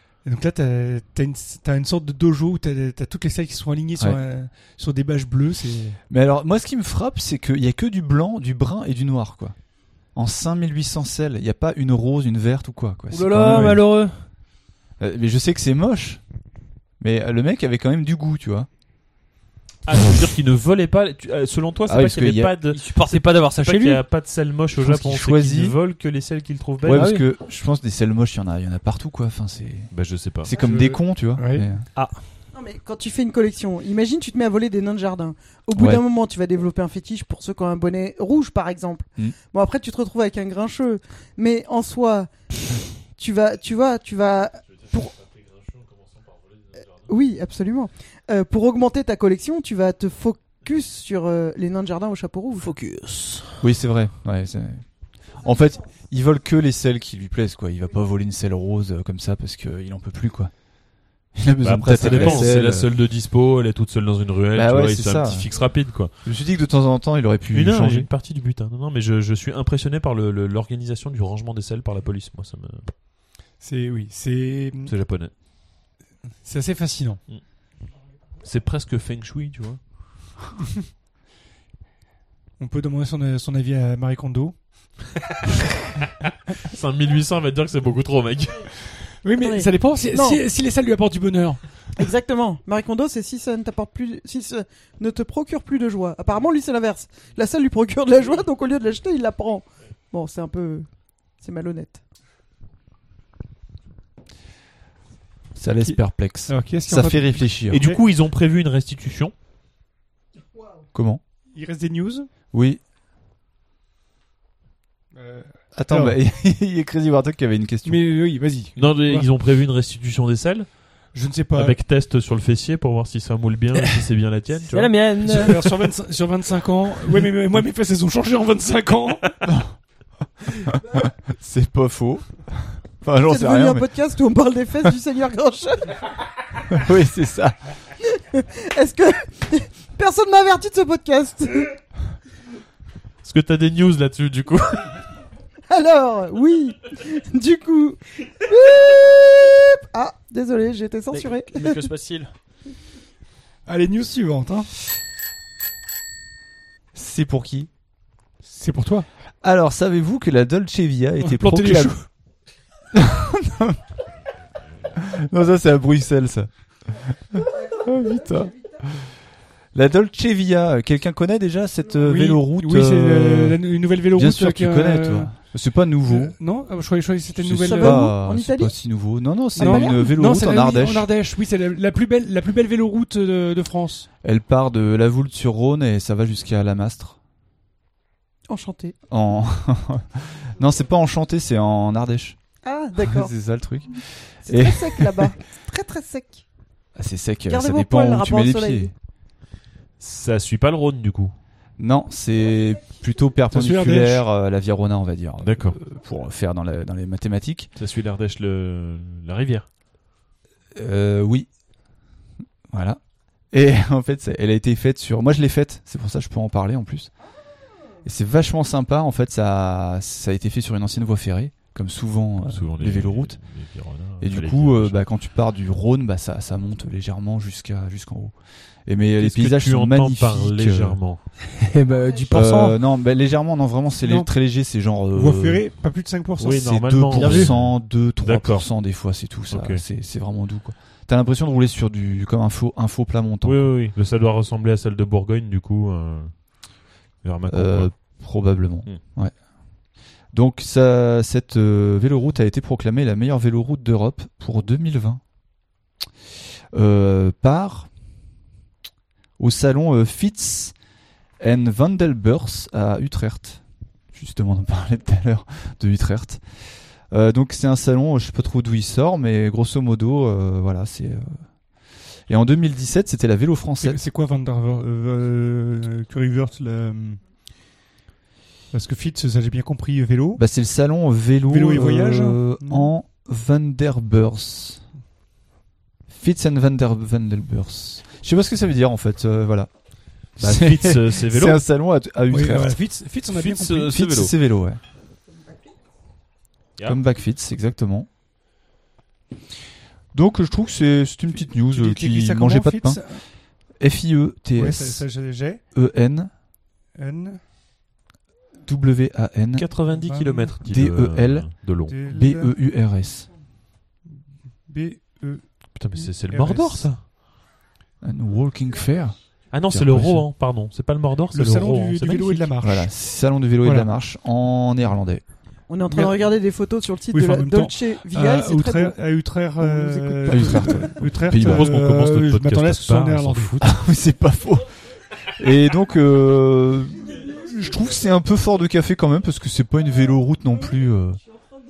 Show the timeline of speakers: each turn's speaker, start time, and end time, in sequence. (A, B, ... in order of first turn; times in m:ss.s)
0:00.2-0:06.0 A
0:06.1-0:09.6 B
0:10.1-0:13.8 B
0:13.1-0:14.2 C
0:15.0-0:16.2 B
0:17.0-0:18.7 B
0:19.9-0:27.1 D
0:21.9-0:22.6 B
0:22.7-0:24.0 C
0:24.8-0:25.8 B
0:26.8-0:31.9 B
0:26.9-0:27.2 C
0:29.9-0:30.5 D
0:30.6-0:31.7 A
0:32.5-0:42.3 E
0:35.8-0:36.0 B
0:43.2-0:45.1 E
0:45.2-0:46.3 D
0:47.0-0:52.7 E
0:52.8-0:53.3 C
0:53.6-0:54.8 B
0:55.4-1:00.5 B
1:01.4-1:02.9 B
1:01.6-1:06.1 D
1:04.5-1:05.5 B
1:06.2-1:08.1 B
1:07.5-1:12.9 D
1:13.6-1:14.9 A
1:14.9-1:15.3 D
1:16.4-1:17.2 A
1:18.4-1:19.8 D
1:22.6-1:24.6 A
1:26.6-1:28.7 D
1:29.2-1:31.6 A
1:29.4-1:30.4 E
1:32.0-1:40.9 E
1:41.4-1:42.0 E
1:45.6-1:47.8 B
1:45.8-1:48.0 A
1:47.7-1:49.3 D
1:50.9-1:51.2 B
1:51.5-1:52.3 A
1:52.5-1:52.8 B
1:55.2-1:56.2 A
1:55.7-1:58.0 B
1:57.8-1:59.3 A
1:58.8-2:00.7 D
2:01.1-2:01.8 A
2:01.5-2:05.5 D
2:04.6-2:05.7 C
2:05.2-2:09.4 A
2:10.7-2:13.9 B
2:13.3-2:16.0 E
2:16.7-2:17.6 B
2:18.0-2:21.7 E
2:23.2-2:25.0 D
2:25.7-2:31.8 E
2:31.1-2:32.3 C
2:33.7-2:34.7 A
2:36.9-2:37.7 B
2:38.4-2:39.1 A
2:39.4-2:42.0 B
2:41.2-2:42.1 A
2:42.9-2:43.8 B
2:45.0-2:49.1 B
2:49.7-2:56.4 B
2:52.0-2:55.3 A
2:56.1-2:58.1 A
2:57.4-3:01.1 B
2:57.7-2:58.8 E
2:59.6-3:00.0 E
2:59.6-3:04.1 A
3:04.2-3:07.2 B
3:08.5-3:09.0 E
3:09.1-3:12.4 B
3:12.6-3:13.3 E
3:13.0-3:15.3 B
3:14.4-3:16.4 E
3:17.0-3:18.9 B
3:17.5-3:18.9 E
3:20.0-3:21.4 D
3:21.8-3:27.7 B
3:23.5-3:24.2 A
3:25.4-3:25.8 D
3:27.8-3:29.7 D
3:30.8-3:31.5 B
3:32.7-3:33.0 B
3:33.5-3:37.1 B
3:38.0-3:43.4 B
3:42.5-3:45.0 D
3:44.2-3:48.3 B
3:48.9-3:51.0 B
3:49.2-3:51.2 D
3:51.5-3:52.8 C
3:52.3-3:55.6 B
3:54.0-3:54.3 A
3:55.1-3:57.5 A
3:56.4-3:58.7 D
3:56.4-4:03.7 B
3:59.5-3:59.8 D
4:03.4-4:06.4 D
4:07.2-4:08.0 D
4:07.5-4:09.3 B
4:10.3-4:15.2 B
4:16.7-4:17.9 B
4:19.4-4:20.8 B
4:21.4-4:23.6 B
4:24.1-4:26.4 B
4:27.1-4:31.4 B
4:32.3-4:34.0 B
4:33.8-4:37.2 A
4:38.7-4:40.4 A
4:40.4-4:44.8 B
4:41.5-4:42.9 A
4:46.1-4:49.7 B
4:50.4-4:51.6 D
4:50.4-4:52.8 B
4:52.3-4:53.9 A
4:53.3-4:54.3 D
4:53.9-4:54.8 B
4:56.9-4:58.1 B
5:00.1-5:03.0 B
5:01.7-5:03.2 A
5:03.8-5:05.0 B
5:04.6-5:05.6 A
5:05.7-5:06.3 B
5:07.0-5:07.4 A
5:08.6-5:09.7 B
5:09.6-5:12.0 D
5:09.9-5:10.6 A
5:10.7-5:11.5 B
5:11.9-5:12.5 A
5:12.1-5:13.3 B
5:14.7-5:15.4 A
5:15.8-5:17.0 D
5:16.0-5:16.9 A
5:18.0-5:19.2 B
5:19.5-5:22.5 D
5:19.7-5:20.3 B
5:21.3-5:22.9 A
5:22.6-5:25.2 B
5:23.6-5:23.9 A
5:25.7-5:29.0 E
5:25.9-5:26.3 A
5:27.1-5:33.7 A
5:29.6-5:30.8 E
5:30.3-5:31.7 B
5:31.3-5:33.6 D
5:33.6-5:34.7 B
5:35.3-5:41.2 B